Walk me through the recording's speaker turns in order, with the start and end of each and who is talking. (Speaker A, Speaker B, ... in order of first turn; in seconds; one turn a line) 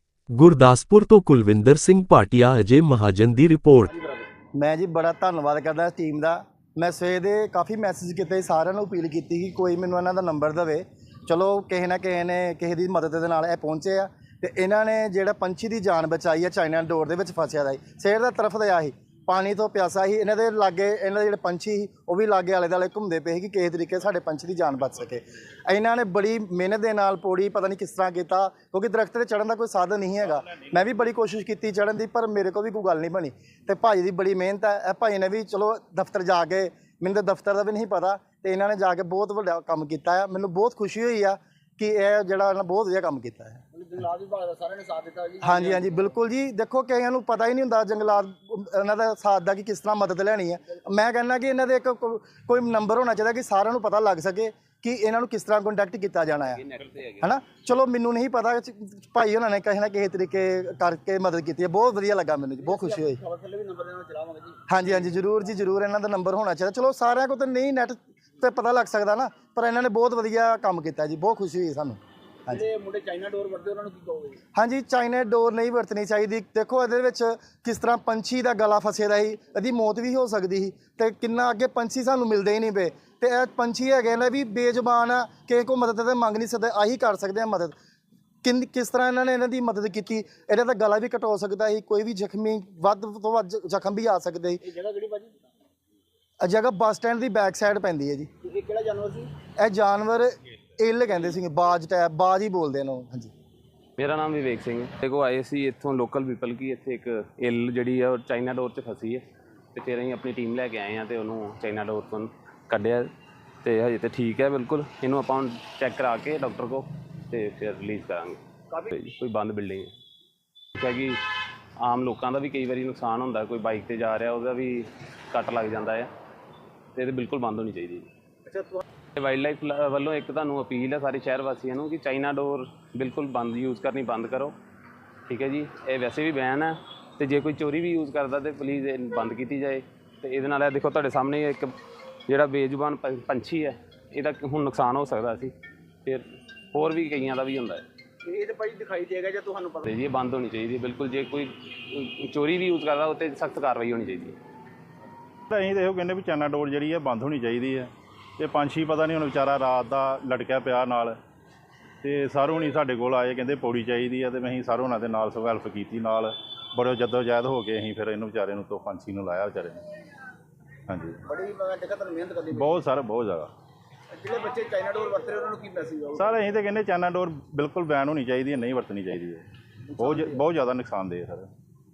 Speaker A: 0.3-3.9
Speaker B: 3.9-4.3
Speaker C: 4.6-43.6
Speaker B: 43.7-46.0
Speaker C: 45.4-56.6
Speaker D: 56.5-57.3
Speaker C: 57.2-63.2
Speaker B: 62.6-65.0
Speaker C: 64.7-72.6
Speaker B: 72.5-74.4
Speaker C: 74.5-87.8
Speaker C: 88.4-94.6
Speaker B: 94.6-95.4
Speaker C: 96.4-98.3
Speaker B: 98.4-99.3
Speaker C: 99.6-103.3
Speaker D: 104.0-113.1
Speaker D: 113.6-119.9
Speaker D: 120.8-121.2
Speaker D: 121.8-126.1
Speaker D: 126.9-128.1
Speaker B: 128.5-128.8
Speaker D: 129.2-134.5
Speaker D: 135.3-141.7
Speaker D: 142.3-145.5
Speaker D: 146.0-147.8
Speaker B: 148.2-149.8
Speaker D: 149.8-154.4
Speaker E: 155.5-161.2
Speaker E: 162.0-169.8
Speaker E: 170.9-171.2
Speaker B: 171.2-172.8
Speaker E: 172.6-173.5
Speaker B: 174.1-176.6
Speaker E: 176.2-179.4
Speaker B: 180.0-180.4
Speaker E: 180.0-181.5